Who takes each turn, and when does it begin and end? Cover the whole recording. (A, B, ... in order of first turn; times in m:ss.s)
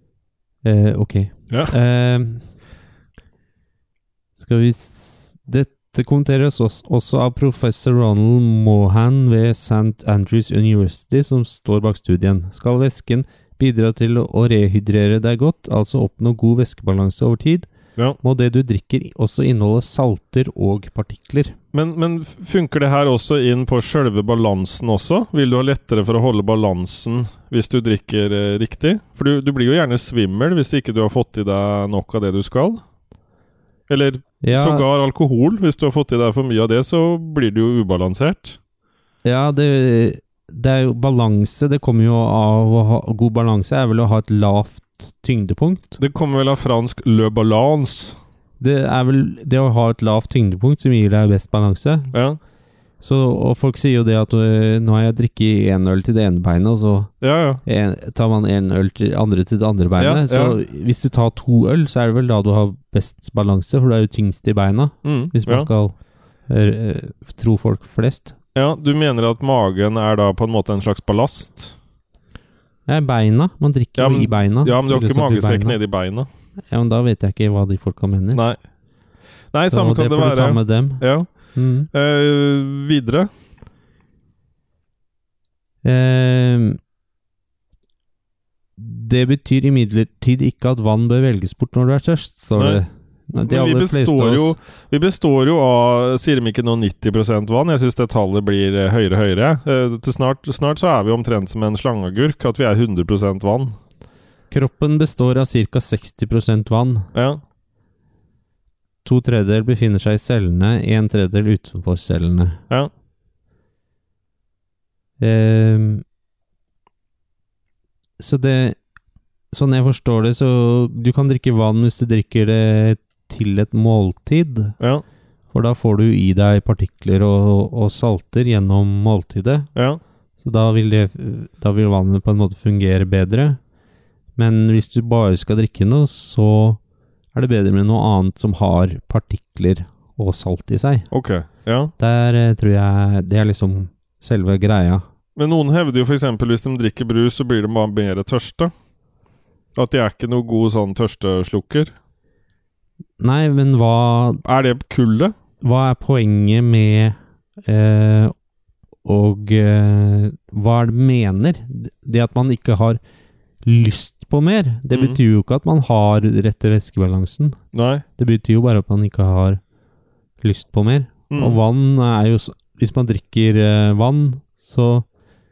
0:00.6-0:02.5 A
0:01.5-0:01.7 B
0:04.4-0:17.7 A
0:18.2-0:21.5 A
0:21.7-0:32.8 B
0:33.9-0:38.6 B
0:34.4-0:34.8 A
0:39.2-0:46.0 A
0:46.0-0:48.2 B
0:48.6-0:52.1 A
0:52.1-0:52.4 B
0:53.0-1:08.4 A
0:57.2-0:57.6 B
1:00.0-1:00.6 B
1:05.0-1:05.7 B
1:08.5-1:11.8 B
1:12.9-1:15.8 A
1:14.0-1:16.3 B
1:16.7-1:18.4 A
1:18.3-1:18.6 B
1:19.5-1:23.3 B
1:19.7-1:21.9 A
1:25.8-1:26.8 A
1:28.8-1:34.6 A
1:32.5-1:32.8 B
1:33.4-1:43.8 B
1:44.5-1:47.0 A
1:47.1-1:47.4 B
1:49.0-1:52.6 A
1:55.2-1:56.0 A
1:58.2-1:58.8 A
1:59.5-2:04.8 A
2:04.8-2:05.0 B
2:05.5-2:09.7 A
2:09.7-2:10.0 B
2:10.4-2:13.6 A
2:14.4-2:16.8 A
2:17.3-2:21.1 A
2:21.1-2:21.9 B
2:22.0-2:25.0 A
2:25.4-2:28.7 B
2:29.7-2:31.9 B
2:33.2-2:34.4 A
2:34.4-2:35.3 B
2:35.6-2:38.3 A
2:39.0-2:43.0 A
2:43.6-2:47.6 A
2:44.9-2:45.2 B
2:47.7-2:48.0 B
2:48.2-2:49.6 A
2:50.4-2:55.0 A
2:51.3-2:51.6 B